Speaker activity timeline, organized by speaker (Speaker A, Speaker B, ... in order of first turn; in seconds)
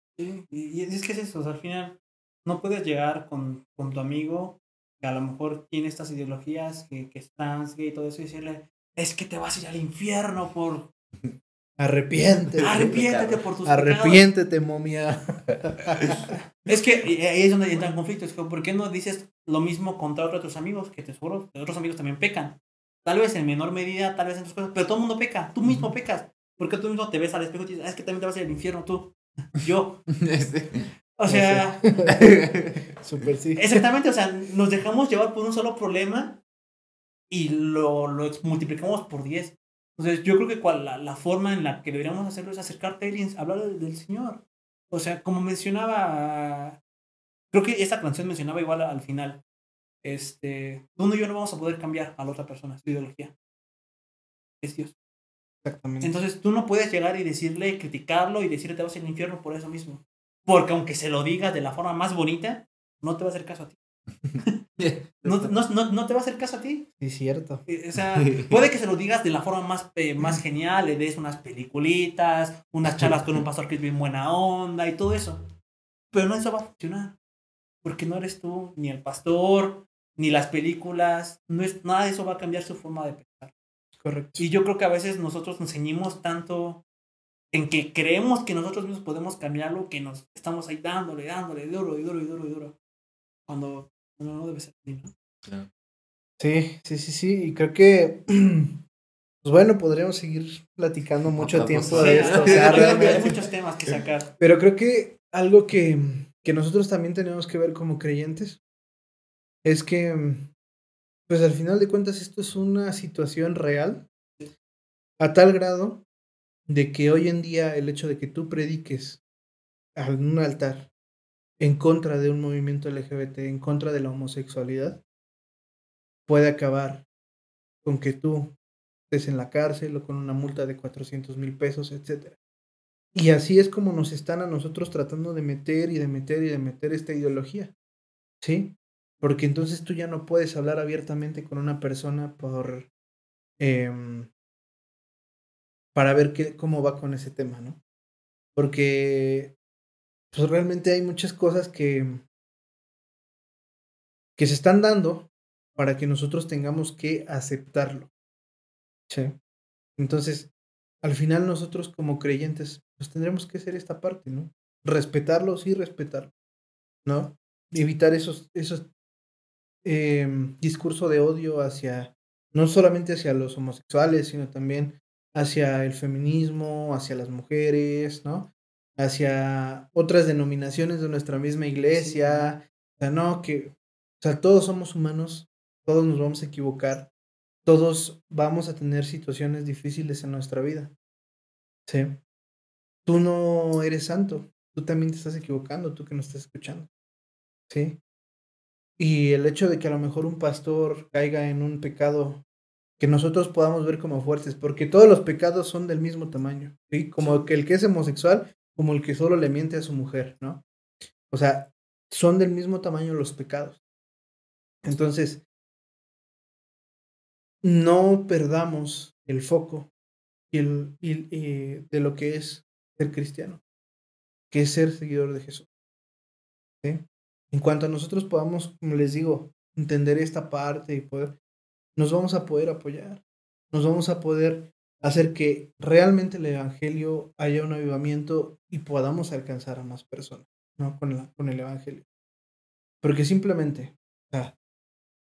Speaker A: 0.2-10.9, 12.6-14.3, 16.7-30.1, 31.2-31.8, 33.6-36.4, 37.3-46.8, 47.5-49.4, 50.0-53.3, 54.6-54.9, 56.0-63.8, 65.2-66.9, 67.7-75.5, 76.1-77.2, 77.8-83.5, 84.4-86.8, 87.5-92.7, 93.5-95.1, 101.8-104.3, 181.9-182.5, 207.2-207.5
Speaker B: 11.8-12.9, 13.7-16.1, 31.3-32.4, 33.0-33.8, 55.6-56.2, 67.0-67.6, 84.0-84.5, 96.4-98.8, 99.4-103.3, 104.4-108.6, 109.6-110.5, 111.3-114.1, 115.2-116.0, 116.7-119.2, 120.0-120.9, 121.6-125.0, 126.3-127.0, 127.8-128.5, 129.1-132.3, 133.1-137.7, 138.4-142.9, 143.6-144.3, 145.9-147.8, 148.5-149.5, 150.3-152.2, 154.4-158.1, 160.0-160.5, 161.0-166.3, 167.0-168.9, 169.8-187.1, 187.6-190.9, 191.9-192.2, 193.1-196.9, 197.7-198.0, 199.0-202.4, 203.0-210.6, 211.3-213.8, 214.8-215.4, 217.6-219.9, 220.5-223.6, 224.5-225.7, 226.8-231.4, 231.9-233.2, 233.7-242.0, 243.0-244.5
Speaker C: 12.6-13.4, 30.2-30.9, 32.1-33.3, 64.8-65.5, 68.3-68.5, 72.8-73.4, 101.4-103.9